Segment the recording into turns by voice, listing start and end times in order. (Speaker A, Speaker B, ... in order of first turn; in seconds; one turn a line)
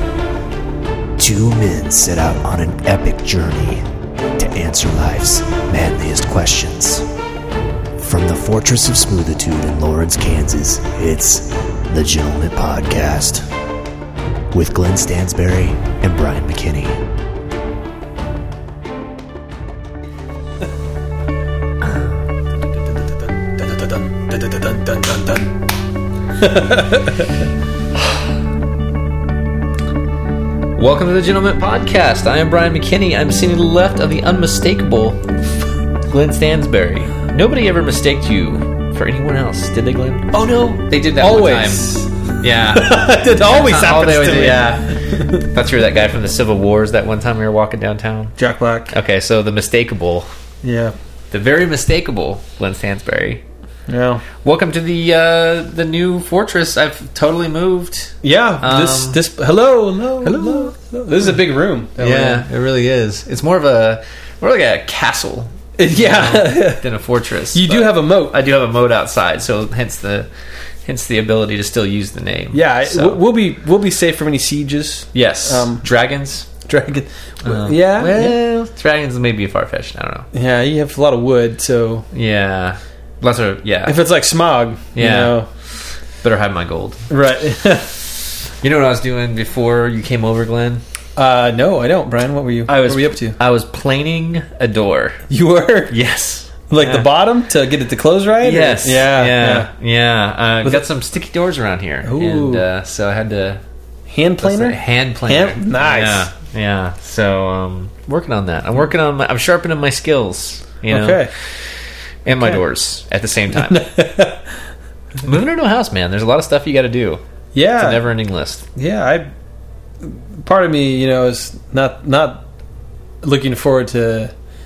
Speaker A: 1.2-3.8
Speaker A: 4.4-7.1
Speaker A: 8.0-13.4
Speaker A: 14.5-17.0
Speaker B: 21.8-22.1
Speaker C: 23.6-25.4
Speaker C: 26.4-27.3
Speaker B: 30.8-35.2
Speaker B: 36.1-48.3
Speaker C: 41.2-42.1
Speaker C: 42.7-45.4
Speaker C: 48.4-48.9
Speaker B: 48.9-50.3
Speaker C: 50.6-50.9
Speaker B: 51.3-53.4
Speaker C: 53.9-54.2
Speaker B: 54.4-59.2
Speaker C: 58.2-62.4
Speaker B: 60.2-60.7
Speaker B: 62.0-70.3
Speaker C: 65.8-66.8
Speaker C: 67.5-68.4
Speaker B: 70.8-73.2
Speaker C: 72.5-75.8
Speaker B: 75.1-76.5
Speaker C: 76.6-78.4
Speaker B: 77.4-80.3
Speaker C: 80.3-82.1
Speaker B: 82.1-84.0
Speaker C: 83.8-85.5
Speaker B: 84.9-85.4
Speaker B: 86.2-87.0
Speaker C: 87.1-88.0
Speaker B: 88.6-90.8
Speaker C: 91.2-93.4
Speaker B: 92.7-95.2
Speaker C: 95.3-96.0
Speaker B: 95.9-97.1
Speaker C: 96.7-99.7
Speaker B: 98.4-103.6
Speaker C: 102.0-102.7
Speaker C: 104.1-106.3
Speaker B: 104.4-111.3
Speaker C: 110.9-111.3
Speaker B: 112.2-113.8
Speaker C: 113.5-114.5
Speaker B: 115.2-117.2
Speaker C: 117.5-118.1
Speaker B: 117.8-118.6
Speaker C: 118.7-119.3
Speaker C: 120.0-122.4
Speaker C: 123.2-124.3